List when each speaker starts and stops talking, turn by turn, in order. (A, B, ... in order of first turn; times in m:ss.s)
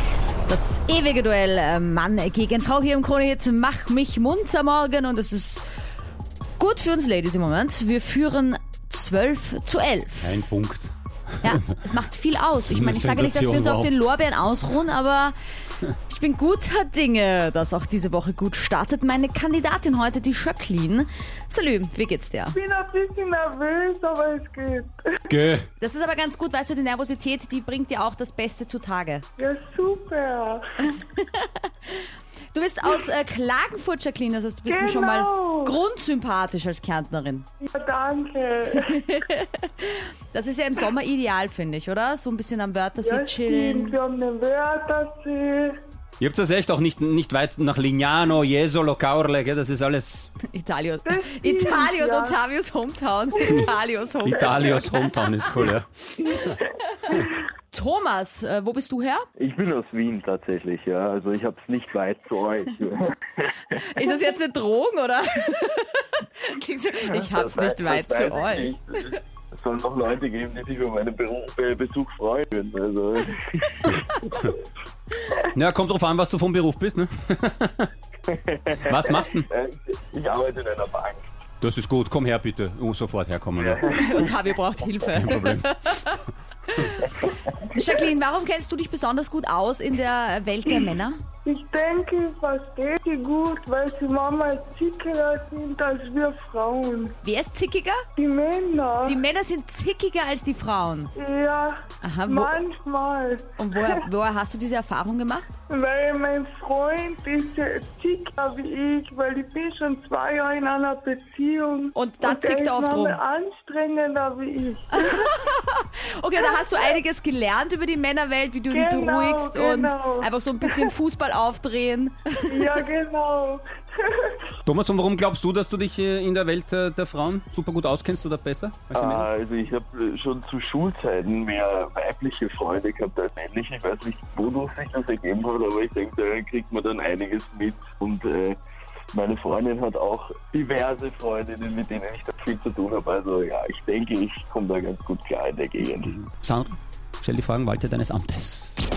0:00.5-0:05.6 A
0:06.6-0:10.4 A
0:10.2-0:11.8 B
0:11.4-0:15.3 A
0:12.6-0:13.9 B
0:16.1-0:22.6 A
0:22.5-0:25.2 C
0:25.3-0:25.7 B
0:25.8-0:29.2 A
0:29.4-0:30.6 C
0:30.8-0:37.5 A
0:34.7-0:35.8 C
0:37.6-0:39.0 C
0:38.8-0:44.0 A
0:43.0-0:45.8 C
0:46.2-0:50.3 B
0:50.4-0:55.7 A
0:51.0-0:52.4 C
0:54.2-0:56.6 B
0:56.4-0:59.2 A
0:59.4-1:03.8 D
1:03.7-1:08.8 A
1:07.0-1:14.3 D
1:15.4-1:17.9 B
1:18.3-1:21.3 D
1:18.8-1:19.5 B
1:21.6-1:24.2 B
1:23.6-1:24.4 D
1:23.9-1:31.2 A
1:25.1-1:25.7 B
1:31.4-1:37.2 C
1:37.2-1:38.0 A
1:38.2-1:39.2 C
1:39.0-1:41.1 A
1:41.2-1:44.0 C
1:42.0-1:42.6 A
1:43.6-1:45.5 A
1:45.7-1:55.3 C
1:51.9-1:53.2 A
1:54.9-2:02.6 A
1:58.7-2:00.9 C
2:02.5-2:04.4 C
2:04.6-2:09.3 B
2:08.9-2:18.6 D
2:19.1-2:26.2 D
2:26.0-2:28.8 B